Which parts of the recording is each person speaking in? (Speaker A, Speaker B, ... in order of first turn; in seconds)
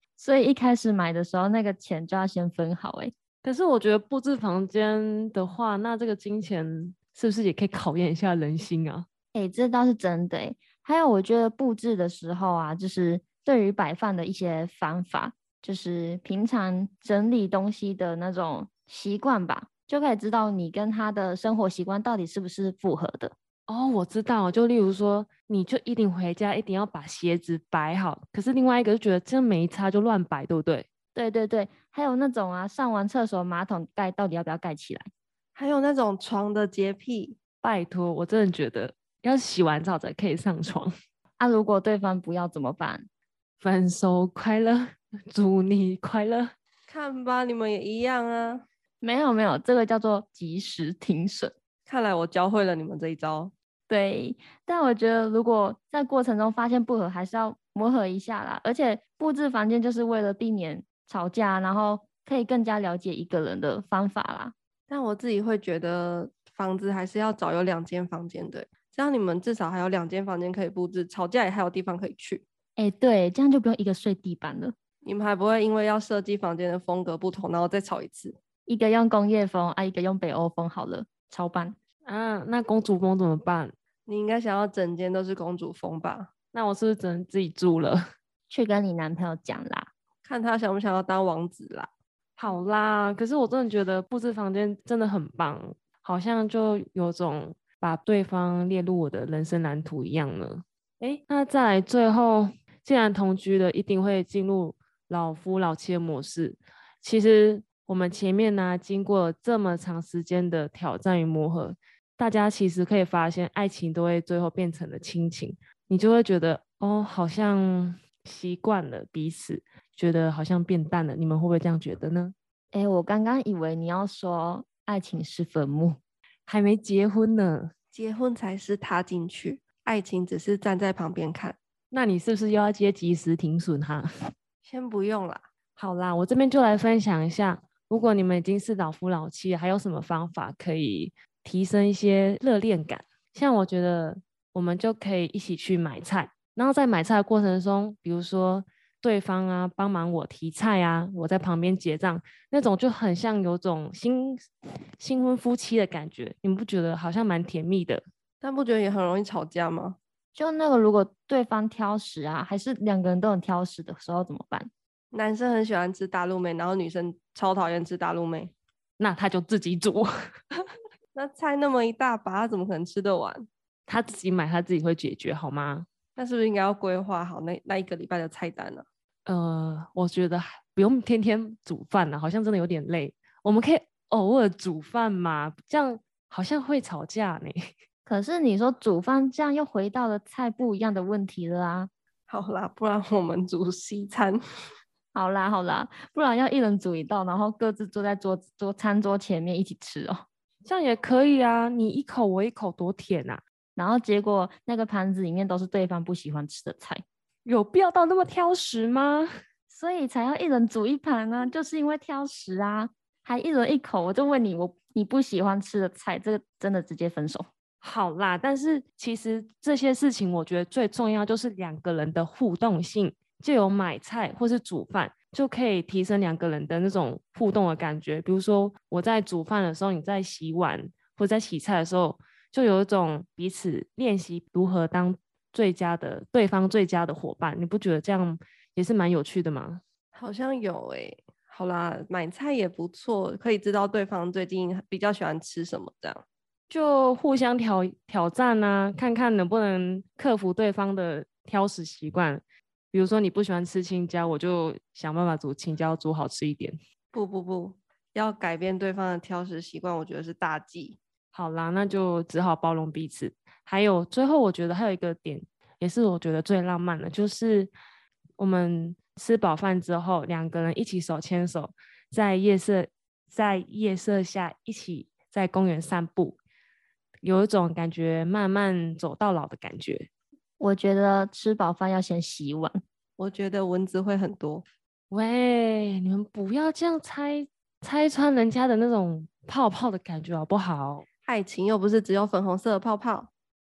Speaker A: 0.2-3.1, 9.3-23.3, 31.1-35.1, 41.4-43.1, 49.0-51.5, 53.9-64.5, 72.8-74.7, 78.7-81.8, 88.5-89.9, 122.7-126.0, 160.3-164.7, 188.1-191.9, 195.1-200.2, 203.8-207.0, 209.7-217.5, 280.6-282.8
Speaker B: 3.4-9.1, 23.7-30.9, 37.6-40.9, 43.6-46.5, 82.0-83.7, 86.5-88.0, 92.4-122.3, 126.5-127.7, 131.9-134.1, 135.8-154.4, 155.0-158.0, 169.0-170.1, 173.9-175.9, 179.2-187.7, 200.6-203.4, 207.4-209.3, 217.8-239.8, 246.7-256.8, 261.3-267.7, 268.4-276.4, 277.2-280.1, 285.1-291.1
Speaker C: 35.5-37.4, 46.9-48.6, 51.9-53.5, 64.9-72.4, 75.0-78.4, 84.0-86.3, 90.2-91.9, 127.9-131.6, 134.6-135.4, 158.4-160.0, 165.1-168.5, 171.1-173.5, 176.2-178.8, 192.3-194.4, 240.1-246.2, 257.1-261.0, 283.2-284.6, 291.2-293.3